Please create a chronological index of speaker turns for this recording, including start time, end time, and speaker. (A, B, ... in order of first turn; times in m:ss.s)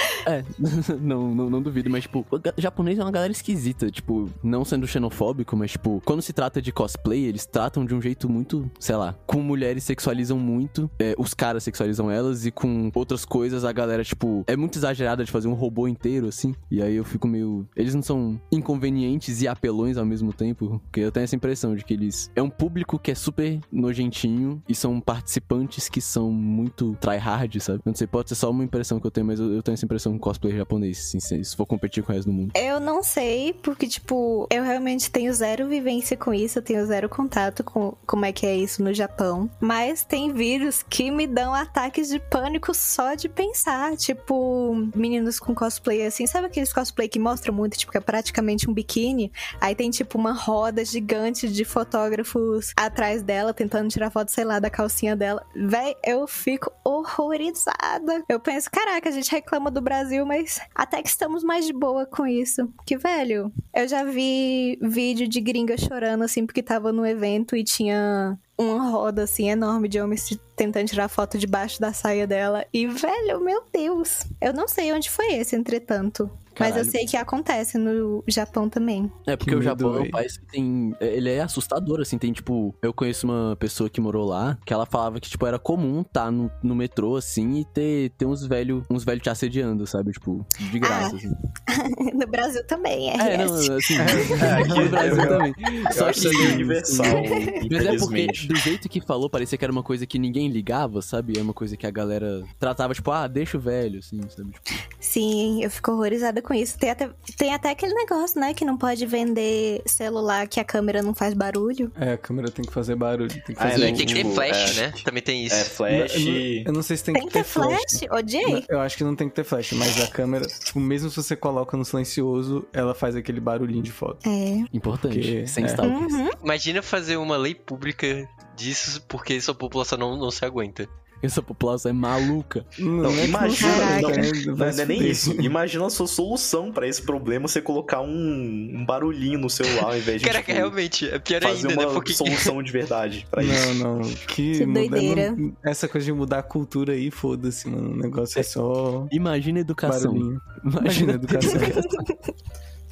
0:00.2-0:32.5 A
0:32.6-1:19.1 B
1:16.6-1:17.0 A
1:19.3-1:31.3 A
1:19.4-1:20.2 C
1:30.8-1:31.2 B
1:31.7-1:34.3 B
1:33.2-1:44.6 A
1:34.0-1:37.1 C
1:34.1-1:38.5 D
1:37.1-1:37.6 B
1:45.0-1:51.9 B
1:52.0-1:54.4 C
1:53.6-1:56.7 D
1:53.7-1:55.8 E
1:55.9-2:04.2 C
1:57.1-1:58.7 B
2:04.2-2:04.7 B
2:04.7-2:06.2 A
2:05.0-2:05.9 C
2:05.8-2:06.4 B
2:06.4-2:10.9 E
2:11.2-2:12.7 A
2:12.8-2:15.5 C
2:13.0-2:20.8 D
2:13.6-2:14.3 B
2:20.2-2:22.5 E
2:21.4-2:23.8 D
2:23.4-2:29.1 C
2:24.5-2:25.4 B
2:29.1-2:32.1 A
2:29.8-2:31.9 C